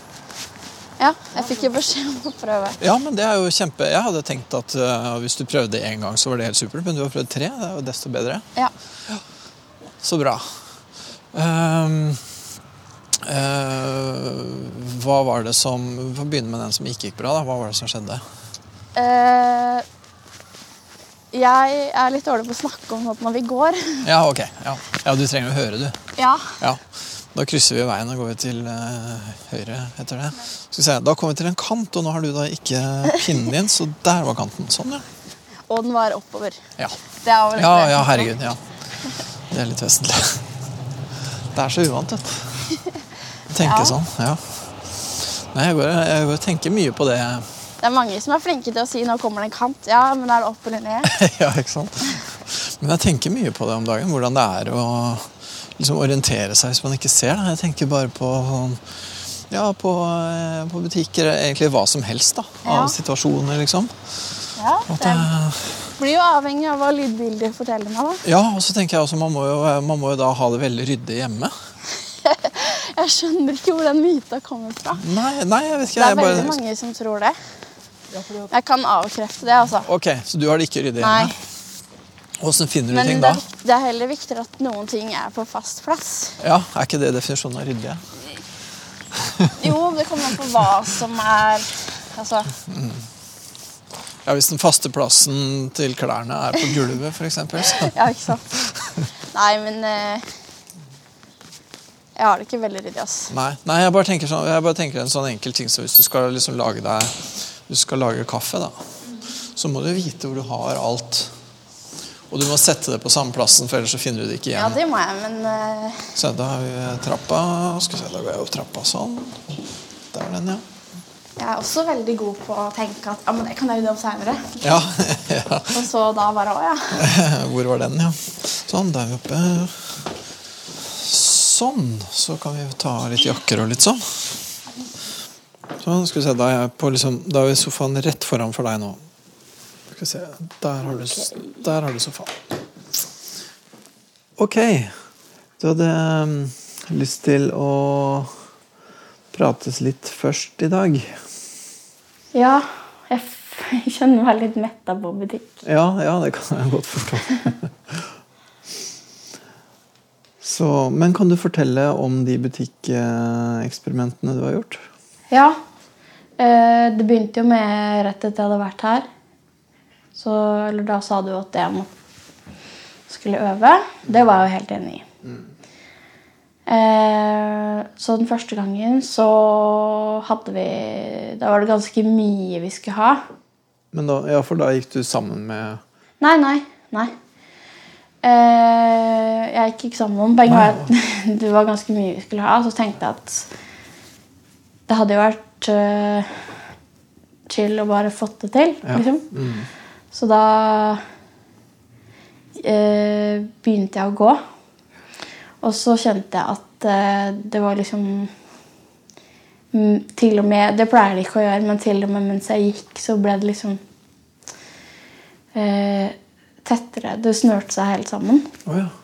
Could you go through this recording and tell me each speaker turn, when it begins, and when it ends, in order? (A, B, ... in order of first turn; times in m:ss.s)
0:01.0-0:02.8 A
0:02.8-0:08.4 B
0:10.0-0:10.6 B
0:11.3-0:12.2 B
0:13.2-0:18.2 B
0:18.9-0:19.8 A
0:21.3-0:24.1 A
0:24.0-0:26.0 B
0:26.2-0:26.6 A
0:26.6-0:35.0 B
0:35.7-0:36.6 A
0:37.2-0:38.3 A
0:37.6-0:38.6 B
0:39.5-0:40.4 B
0:41.5-0:42.7 B
0:43.5-0:47.5 B
0:43.6-0:44.0 A
0:47.8-0:51.2 A
0:51.0-1:04.0 B
1:02.6-1:03.0 A
1:04.6-1:05.3 A
1:04.9-1:05.9 B
1:06.0-1:08.2 A
1:08.2-1:11.5 B
1:12.1-1:15.0 A
1:15.0-1:16.6 B
1:15.9-1:17.4 A
1:18.5-1:19.9 A
1:19.8-1:21.3 B
1:21.0-1:21.3 A
1:22.4-1:23.4 B
1:22.9-1:26.4 A
1:26.4-1:28.0 B
1:29.1-1:29.7 B
1:29.6-1:32.6 A
1:32.6-1:33.0 B
1:34.2-1:37.9 B
1:37.6-1:38.6 A
1:39.3-1:40.2 A
1:42.2-1:43.3 A
1:43.3-1:48.7 B
1:49.4-1:51.3 B
1:52.3-1:54.8 B
1:54.5-1:56.1 A
1:56.1-1:59.6 B
2:00.1-2:00.6 B
2:01.4-2:04.6 A
2:04.6-2:05.8 B
2:05.7-2:07.0 A
2:06.9-2:10.1 B
2:10.7-2:14.4 B
2:15.8-2:19.0 B
2:19.9-2:22.4 B
2:24.4-2:24.9 B
2:25.6-2:28.3 B
2:29.3-2:31.2 B
2:32.3-2:35.6 A
2:35.6-2:38.1 B
2:40.4-2:44.8 B
2:45.3-2:45.6 A
2:46.4-2:49.1 A
2:50.1-2:51.9 A
2:53.1-2:55.0 A
2:56.7-3:03.2 A
3:03.9-3:05.8 B
3:06.2-3:07.1 A
3:08.2-3:13.5 A
3:10.5-3:10.9 B
3:14.9-3:16.4 A
3:17.5-3:19.2 A
3:18.8-3:19.7 B
3:20.1-3:21.0 A
3:22.6-3:24.4 A
3:25.6-3:28.3 A
3:29.7-3:33.8 A
3:35.5-3:38.5 A
3:38.6-3:38.9 B